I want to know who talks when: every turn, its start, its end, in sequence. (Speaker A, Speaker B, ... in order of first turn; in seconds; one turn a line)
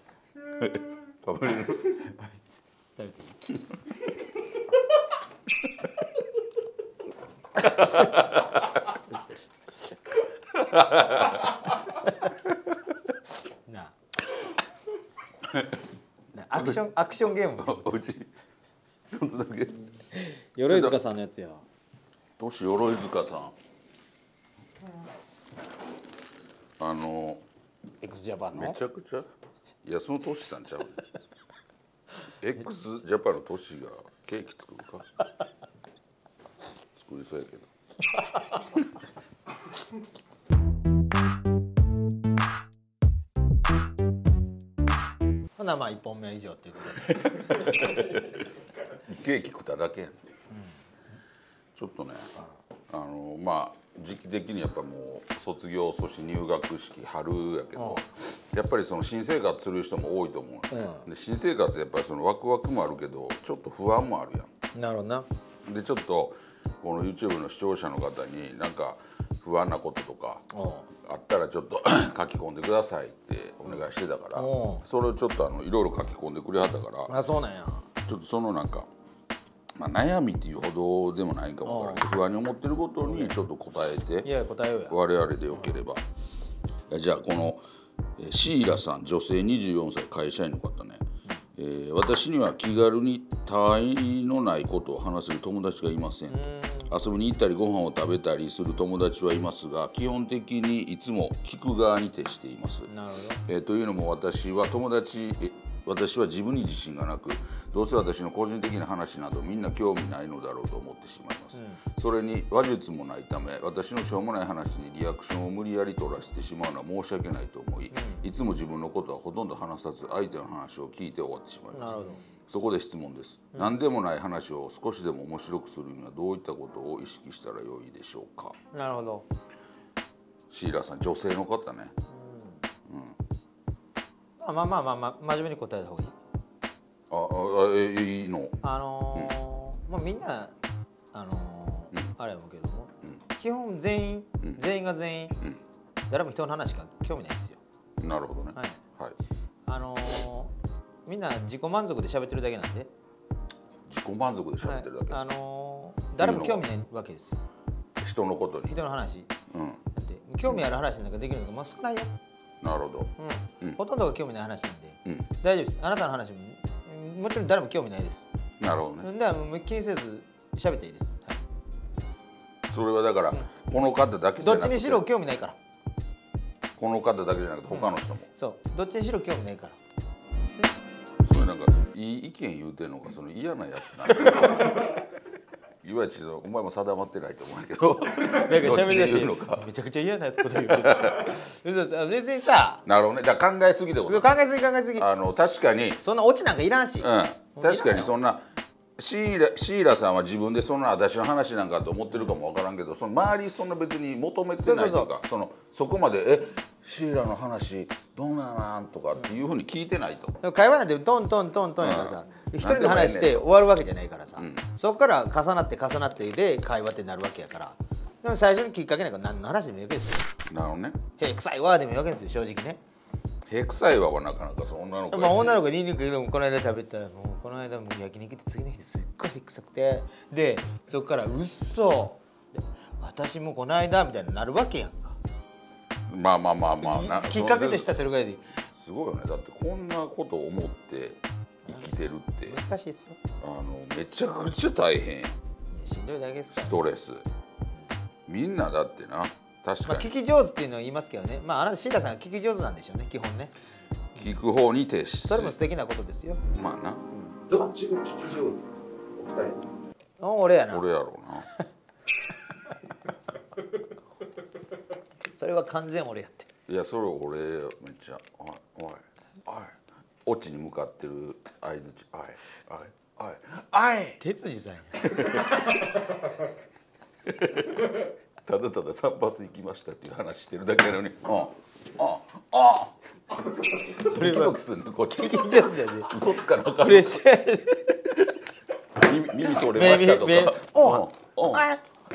Speaker A: 0.5-2.1
Speaker B: 1.9-3.4
Speaker A: 7.6-8.6
Speaker B: 7.7-8.2
Speaker B: 8.8-9.5
Speaker A: 10.5-11.6
Speaker B: 11.8-12.3
Speaker B: 13.7-13.9
Speaker A: 15.5-15.8
Speaker B: 16.3-17.9
Speaker A: 17.6-18.3
Speaker A: 19.1-19.9
Speaker B: 20.1-21.7
Speaker A: 20.7-21.0
Speaker A: 22.4-23.6
Speaker A: 26.8-27.4
Speaker B: 28.0-28.8
Speaker A: 28.5-29.3
Speaker A: 29.9-31.0
Speaker A: 32.4-35.1
Speaker A: 36.9-37.7
Speaker B: 45.6-48.0
Speaker A: 47.1-48.4
Speaker A: 49.0-50.2
Speaker A: 51.8-52.3
Speaker A: 52.9-64.5
Speaker B: 57.8-58.0
Speaker B: 60.7-61.1
Speaker B: 64.7-65.3
Speaker A: 65.7-70.4
Speaker B: 70.5-70.9
Speaker A: 71.0-77.1
Speaker B: 74.3-74.9
Speaker B: 77.1-77.9
Speaker A: 78.0-78.9
Speaker A: 79.8-84.3
Speaker B: 81.7-82.1
Speaker B: 83.0-83.4
Speaker B: 84.2-85.0
Speaker A: 84.9-86.0
Speaker A: 86.9-87.6
Speaker A: 88.2-91.0
Speaker A: 91.6-102.9
Speaker B: 96.3-96.9
Speaker B: 102.9-103.4
Speaker A: 103.5-128.6
Speaker B: 111.5-111.8
Speaker B: 117.9-118.2
Speaker B: 121.7-122.2
Speaker B: 128.7-129.3
Speaker A: 130.5-131.9
Speaker B: 132.1-132.6
Speaker A: 132.9-133.2
Speaker B: 134.4-136.1
Speaker A: 137.1-138.6
Speaker B: 138.6-140.5
Speaker B: 141.1-145.4
Speaker B: 146.1-147.6
Speaker A: 148.0-149.2
Speaker B: 148.6-148.8
Speaker B: 149.7-150.5
Speaker B: 151.1-152.9
Speaker A: 153.9-155.2
Speaker B: 154.6-157.4
Speaker A: 156.2-156.7
Speaker A: 158.0-158.8
Speaker B: 158.7-159.3
Speaker A: 159.5-159.8
Speaker B: 159.9-162.1
Speaker A: 162.6-163.8
Speaker B: 163.2-168.3
Speaker A: 168.6-169.1
Speaker B: 169.0-171.4
Speaker A: 172.7-175.1
Speaker B: 174.4-175.6
Speaker A: 176.8-178.3
Speaker B: 177.7-179.8
Speaker A: 181.2-185.0
Speaker B: 184.1-184.7
Speaker A: 185.8-189.7
Speaker B: 188.3-192.8
Speaker A: 190.5-191.3
Speaker A: 192.8-194.4
Speaker B: 194.1-195.1
Speaker A: 195.0-196.0
Speaker B: 196.0-198.1
Speaker A: 197.0-198.4
Speaker A: 199.0-210.4
Speaker B: 204.6-205.1
Speaker B: 210.4-220.3
Speaker A: 211.8-213.5
Speaker A: 214.4-214.7
Speaker A: 220.5-221.0
Speaker B: 221.2-222.8
Speaker A: 223.5-225.6
Speaker B: 225.1-235.2
Speaker A: 236.1-238.0
Speaker B: 236.8-238.6
Speaker A: 238.7-242.6
Speaker B: 242.5-243.2
Speaker A: 243.4-245.4
Speaker B: 245.7-246.8
Speaker A: 246.6-247.3
Speaker A: 248.3-250.1
Speaker B: 249.8-253.5
Speaker A: 254.2-255.6
Speaker B: 255.3-256.4
Speaker A: 256.5-257.0
Speaker B: 257.1-257.7
Speaker C: 257.6-259.7
Speaker B: 260.2-260.9
Speaker A: 260.7-261.5
Speaker B: 265.3-266.5
Speaker A: 266.7-274.2
Speaker B: 274.2-275.1
Speaker A: 275.0-276.0
Speaker A: 277.3-283.0
Speaker A: 283.6-287.2
Speaker B: 283.9-288.2
Speaker A: 288.9-291.7
Speaker B: 289.5-291.8